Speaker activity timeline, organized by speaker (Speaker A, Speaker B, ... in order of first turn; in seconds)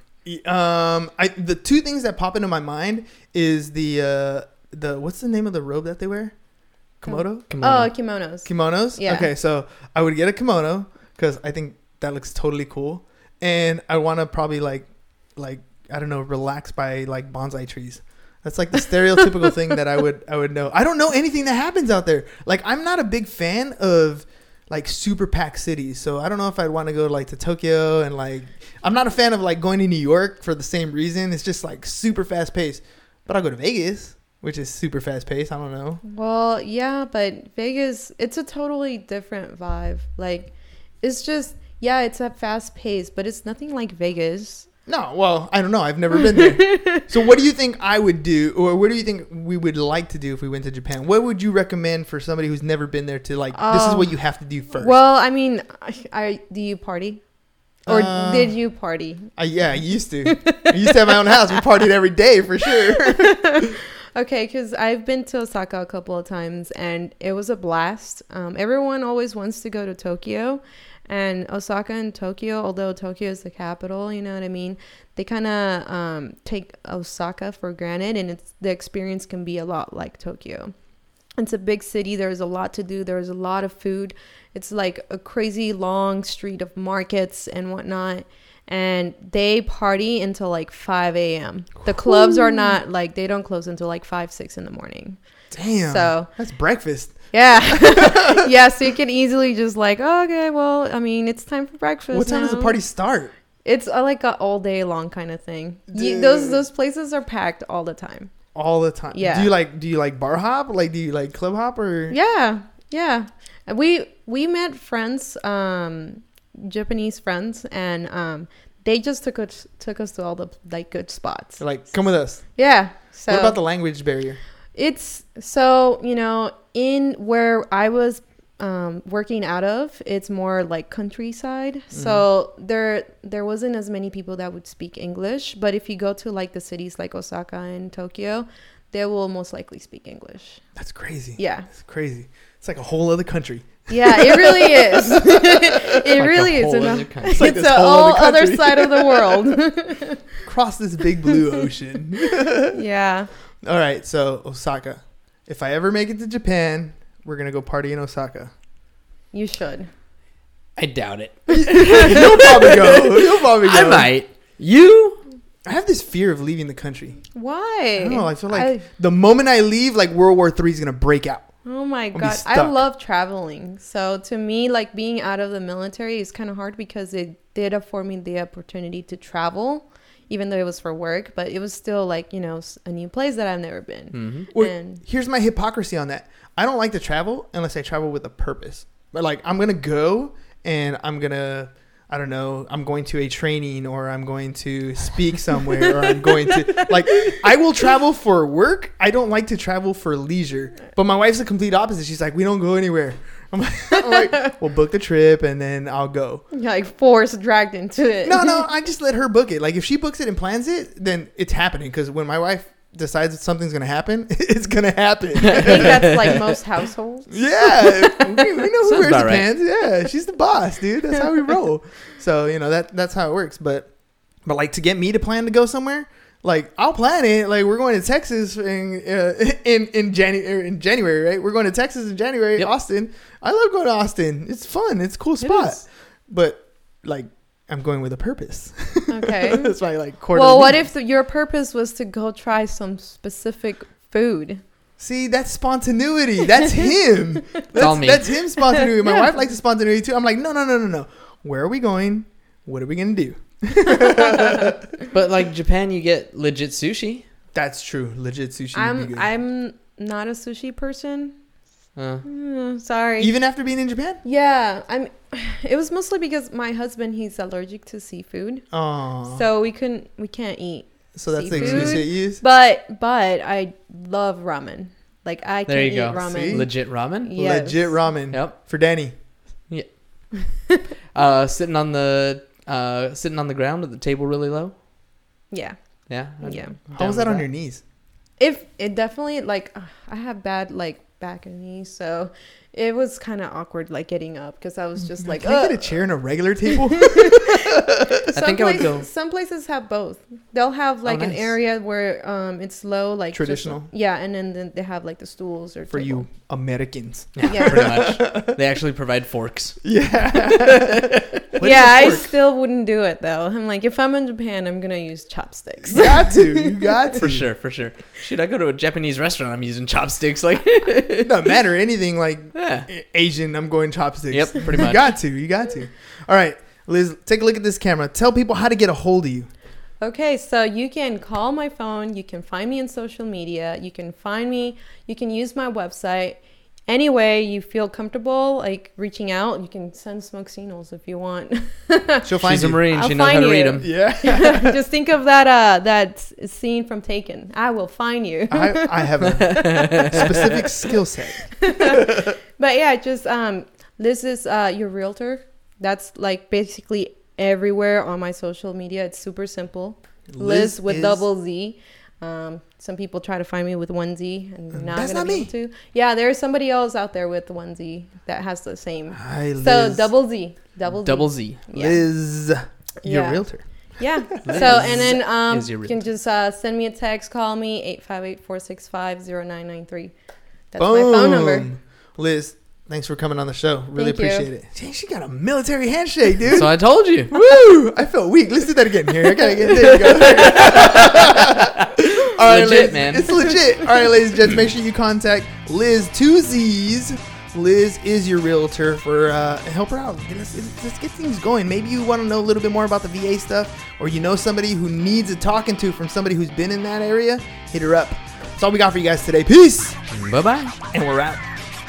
Speaker A: 0.2-6.3, 7.0-7.5, 8.4-36.0, 44.9-55.0, 57.9-58.6, 59.3-63.6, 92.0-92.7, 95.5-98.5, 102.1-103.3, 105.9-106.6, 108.5-112.2, 121.6-122.6, 123.3-124.4, 131.9-132.2, 140.7-145.9, 147.3-149.5, 150.4-152.8, 153.6-158.5, 161.5-164.1, 165.7-167.2, 168.0-171.5, 172.1-172.8, 184.5-206.4, 208.2-216.4, 217.3-223.9, 224.4-240.9, 245.0-254.9, 257.5-259.3, 263.2-264.2, 268.7-269.4, 271.1-272.4, 276.1-276.8, 277.3-279.1, 286.9-287.8, 295.1-298.2, 303.3-303.9, 305.9-308.6, 309.8-312.3, 315.9-317.5, 321.2-329.5, 342.2-342.8, 343.8-344.8, 348.5-352.2, 360.3-361.2, 364.7-365.5, 369.1-370.1, 371.7-375.2, 380.8-410.0, 410.9-411.4
Speaker B: 7.1-9.3, 36.0-44.7, 46.3-47.0, 53.5-54.2, 54.7-57.2, 57.8-59.3, 60.2-61.4, 63.0-80.7, 81.4-95.2, 95.8-96.3, 97.3-102.8, 103.6-108.3, 109.1-109.5, 112.1-121.6, 122.5-123.6, 124.7-140.6, 141.4-141.7, 143.9-150.3, 152.6-153.3, 159.3-159.9, 161.6-162.2, 167.3-168.8, 171.6-185.0, 196.8-197.4, 206.5-208.6, 215.5-218.4, 235.4-235.8, 239.1-239.7, 240.3-244.6, 248.8-249.3, 258.7-261.4, 262.2-263.3, 264.2-268.7, 269.2-278.0, 285.5-286.8, 288.4-296.0, 296.7-306.3, 307.5-307.9, 311.6-317.2, 330.0-342.3, 342.9-350.9, 351.5-372.0, 373.0-380.1, 380.7-381.7, 383.9-384.5
Speaker C: 7.5-7.9, 146.2-147.4, 160.8-165.2, 184.1-184.5, 215.4-216.3, 218.8-219.4, 247.8-248.3, 255.1-257.2, 261.9-262.2, 271.5-272.0, 275.7-277.3, 278.3-278.6, 279.7-284.7, 286.1-287.4, 298.3-299.1, 301.0-301.5, 307.4-309.8, 310.4-311.4, 317.2-321.4, 322.5-322.9, 324.3-325.1, 342.4-343.9, 349.2-350.4, 371.0-371.6, 374.4-376.0, 386.5-387.3, 389.9-393.6, 410.1-410.7